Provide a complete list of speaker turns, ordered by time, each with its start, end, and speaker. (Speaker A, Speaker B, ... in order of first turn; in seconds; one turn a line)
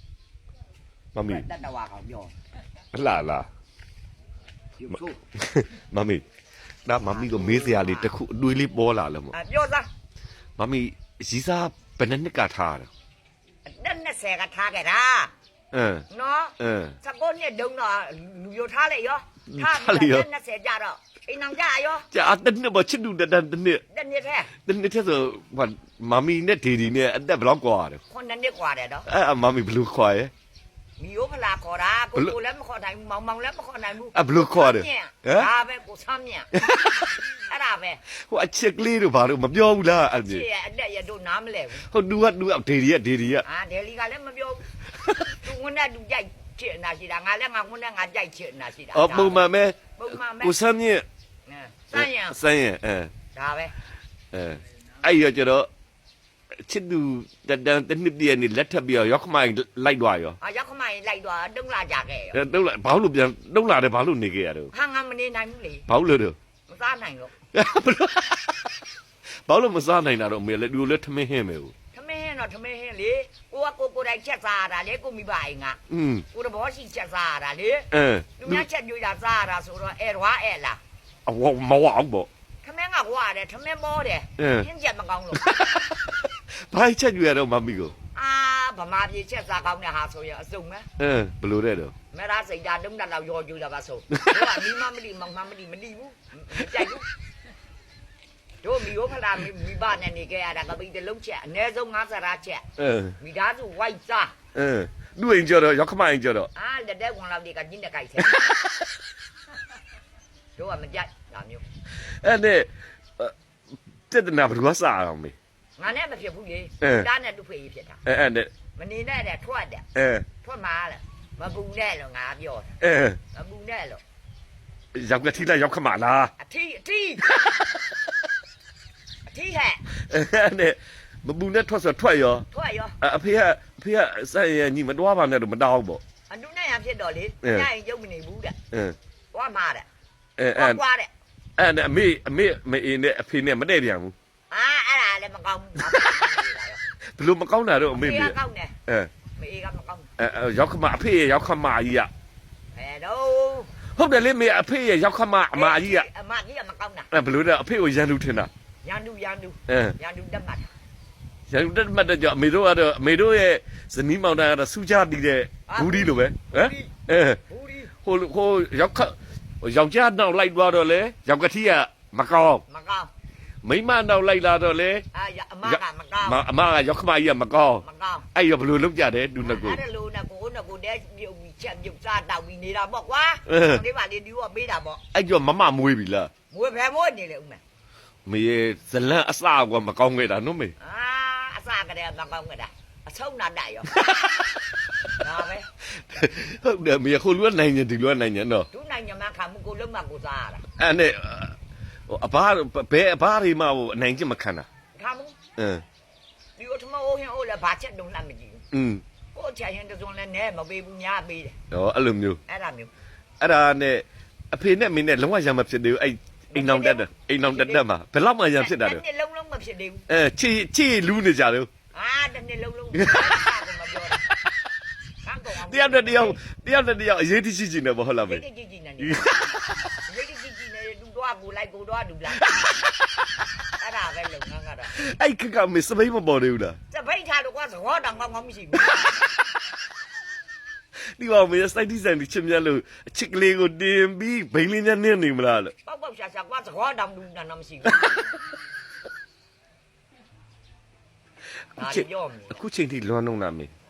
Speaker A: 1.1-1.5
Speaker B: 1.3-2.3
Speaker A: 2.9-3.5
Speaker B: 4.8-5.2
Speaker A: 4.9-6.2
Speaker A: 6.9-9.3
Speaker B: 7.0-8.1
Speaker B: 9.3-9.9
Speaker A: 10.6-12.9
Speaker B: 13.7-15.3
Speaker A: 15.7-16.1
Speaker B: 16.1-22.1
Speaker A: 16.6-17.0
Speaker A: 19.5-20.3
Speaker A: 22.1-23.8
Speaker B: 23.9-24.5
Speaker A: 24.7-28.0
Speaker B: 28.1-29.1
Speaker A: 29.1-30.3
Speaker B: 31.0-36.5
Speaker A: 34.1-35.5
Speaker A: 36.5-37.2
Speaker B: 37.5-38.0
Speaker A: 38.3-40.5
Speaker B: 40.2-41.9
Speaker A: 41.9-43.5
Speaker B: 43.4-44.6
Speaker B: 45.4-50.6
Speaker A: 48.9-51.1
Speaker B: 51.5-52.4
Speaker A: 51.9-53.1
Speaker B: 53.3-53.7
Speaker A: 54.3-55.7
Speaker A: 56.6-60.4
Speaker B: 60.4-62.4
Speaker A: 62.3-64.7
Speaker B: 64.7-65.9
Speaker A: 65.9-66.4
Speaker B: 66.7-67.3
Speaker A: 67.5-68.7
Speaker A: 69.5-71.7
Speaker B: 71.9-75.8
Speaker A: 75.9-76.2
Speaker B: 76.3-80.8
Speaker A: 77.9-78.7
Speaker A: 81.3-82.3
Speaker B: 82.6-85.6
Speaker A: 84.4-84.7
Speaker A: 85.4-87.9
Speaker B: 88.1-90.9
Speaker A: 91.0-91.9
Speaker B: 92.1-97.1
Speaker A: 94.1-94.6
Speaker B: 98.6-102.7
Speaker A: 102.8-103.2
Speaker B: 103.2-104.3
Speaker A: 104.5-106.5
Speaker B: 106.5-108.4
Speaker A: 108.3-108.6
Speaker B: 110.6-111.6
Speaker A: 112.0-113.3
Speaker A: 114.1-115.3
Speaker B: 115.8-118.0
Speaker A: 116.8-117.1
Speaker A: 118.0-118.5
Speaker B: 118.8-119.9
Speaker A: 120.0-120.3
Speaker B: 120.4-122.7
Speaker A: 122.8-123.2
Speaker B: 123.3-124.0
Speaker A: 124.9-126.3
Speaker B: 126.4-127.4
Speaker B: 129.3-129.8
Speaker A: 130.1-132.5
Speaker B: 132.5-133.0
Speaker A: 133.0-136.0
Speaker B: 136.3-138.6
Speaker A: 137.4-137.7
Speaker B: 139.3-139.9
Speaker A: 140.4-140.8
Speaker B: 140.6-141.1
Speaker A: 141.6-144.1
Speaker B: 144.5-146.8
Speaker A: 145.8-146.1
Speaker A: 147.2-149.1
Speaker B: 147.9-148.8
Speaker B: 149.4-150.1
Speaker A: 150.2-152.1
Speaker B: 152.7-153.7
Speaker A: 153.9-156.1
Speaker B: 155.5-157.1
Speaker A: 157.1-158.5
Speaker B: 158.8-160.7
Speaker A: 159.7-159.9
Speaker A: 161.5-167.4
Speaker B: 165.7-166.9
Speaker B: 167.5-167.9
Speaker A: 168.0-172.6
Speaker B: 172.7-173.1
Speaker A: 173.6-175.1
Speaker B: 175.1-176.4
Speaker A: 175.6-177.8
Speaker B: 177.8-178.3
Speaker A: 178.3-179.8
Speaker B: 179.4-185.0
Speaker A: 183.5-183.8
Speaker A: 185.1-186.3
Speaker B: 186.5-187.6
Speaker A: 188.3-190.7
Speaker B: 190.8-194.0
Speaker A: 193.9-194.8
Speaker B: 195.2-195.7
Speaker A: 196.1-198.7
Speaker B: 198.7-200.7
Speaker A: 200.8-201.6
Speaker A: 202.1-204.7
Speaker B: 205.0-205.4
Speaker A: 205.6-205.8
Speaker B: 206.6-208.6
Speaker A: 208.7-209.0
Speaker B: 209.3-211.6
Speaker A: 211.7-212.4
Speaker B: 212.5-212.9
Speaker A: 213.4-219.0
Speaker B: 216.5-217.8
Speaker B: 218.6-220.0
Speaker A: 220.1-221.7
Speaker B: 221.9-224.2
Speaker A: 222.9-223.5
Speaker B: 225.2-226.4
Speaker A: 225.6-228.4
Speaker B: 228.2-229.4
Speaker A: 229.0-229.8
Speaker B: 230.1-232.6
Speaker A: 232.4-232.9
Speaker B: 233.8-235.0
Speaker A: 234.9-236.8
Speaker B: 236.9-239.2
Speaker A: 241.2-245.7
Speaker B: 245.8-248.3
Speaker A: 251.8-253.7
Speaker B: 251.8-252.6